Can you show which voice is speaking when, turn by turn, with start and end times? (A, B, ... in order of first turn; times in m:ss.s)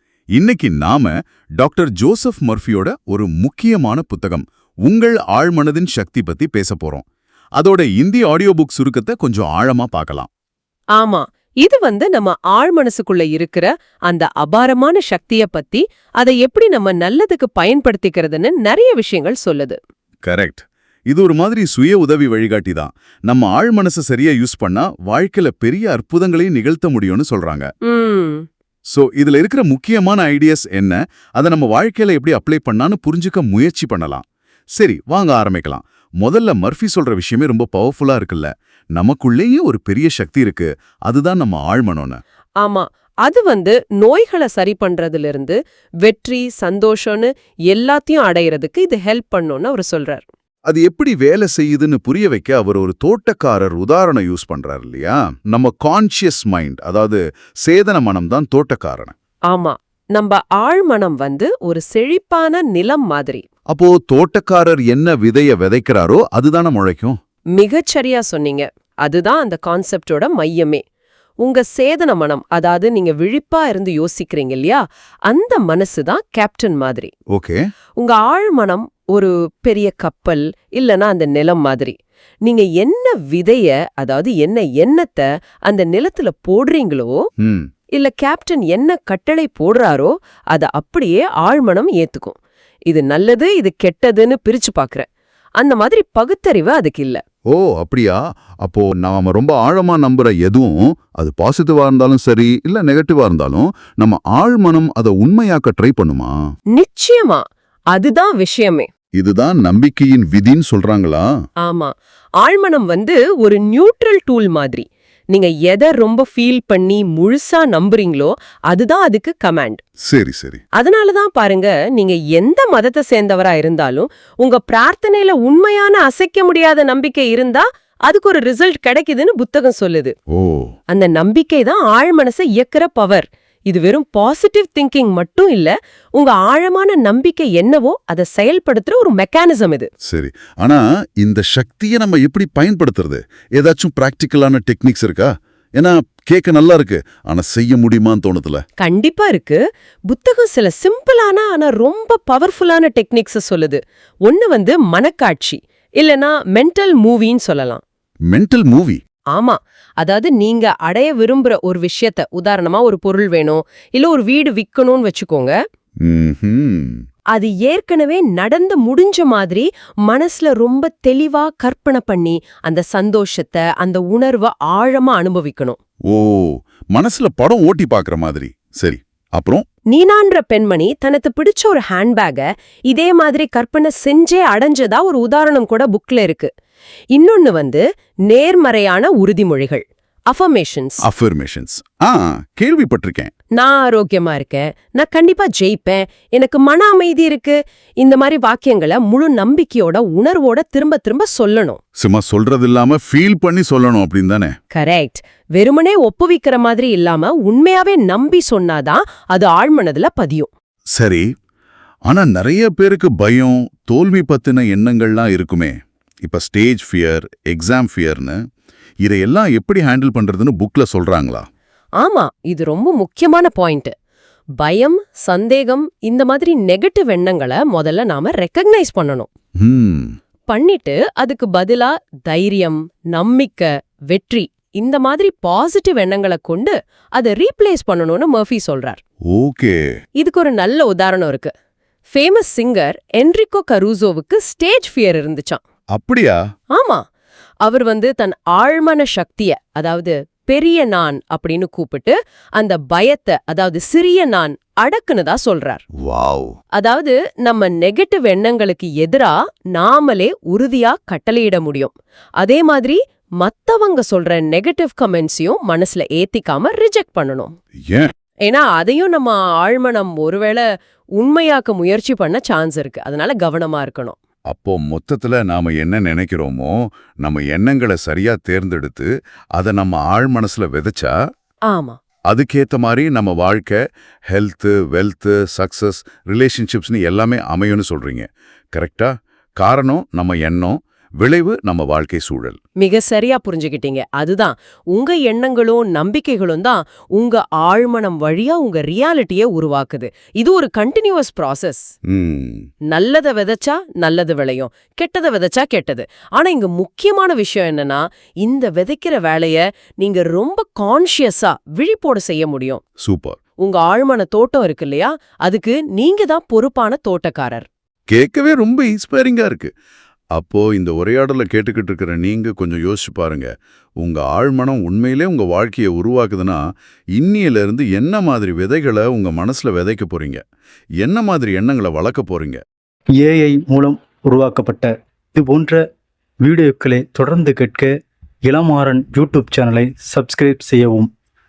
0:00.3-0:07.0 A
0:07.6-0:10.3 A
0:11.0-0:19.8 B
0:20.2-0:27.7 A
0:27.8-0:28.4 B
0:28.9-0:34.2 A
0:34.8-0:42.2 A
0:42.6-0:50.2 B
0:50.7-0:59.1 A
0:59.5-1:03.4 B
1:03.7-1:07.2 A
1:07.6-1:10.8 B
1:11.4-1:17.1 B
1:17.3-1:17.6 A
1:18.0-1:27.2 B
1:27.4-1:27.7 A
1:27.9-1:32.4 B
1:32.9-1:35.1 B
1:35.6-1:37.2 B
1:37.5-1:46.4 A
1:46.7-1:48.9 B
1:49.2-1:51.3 A
1:51.6-1:59.8 B
2:00.1-2:00.6 A
2:00.8-2:10.1 B
2:10.3-2:10.7 A
2:10.9-2:19.9 B
2:20.0-2:28.6 A
2:28.8-2:37.8 B
2:38.3-2:39.0 A
2:39.3-2:45.6 B
2:46.0-2:47.0 A
2:47.3-2:55.8 B
2:56.1-2:59.6 A
2:59.9-3:06.5 B
3:07.1-3:11.0 B
3:11.0-3:13.3 A
3:13.6-3:21.8 B
3:22.0-3:24.5 A
3:24.7-3:30.5 B
3:31.0-3:31.3 A
3:32.1-3:38.4 A
3:39.0-3:41.5 A
3:42.0-3:43.9 B
3:44.6-3:49.3 B
3:49.6-3:50.1 A
3:50.5-3:59.0 B
3:59.3-3:59.8 A
4:00.2-4:01.5 B
4:02.1-4:05.6 B
4:05.9-4:06.4 A
4:06.7-4:07.0 B
4:07.6-4:15.8 B
4:16.0-4:16.6 A
4:16.8-4:27.5 B
4:28.4-4:30.6 B
4:31.2-4:34.2 B
4:34.5-4:41.1 A
4:41.7-4:42.0 B
4:42.3-4:43.8 A
4:44.3-4:52.6 A
4:52.8-5:01.9 B
5:02.1-5:02.6 A
5:02.9-5:12.8 B
5:13.0-5:13.4 A
5:13.6-5:17.7 B
5:18.1-5:19.7 A
5:20.3-5:26.6 A
5:27.2-5:30.4 A
5:31.0-5:32.6 A
5:33.1-5:35.8 C
5:36.4-5:37.9 C
5:38.4-5:41.1 C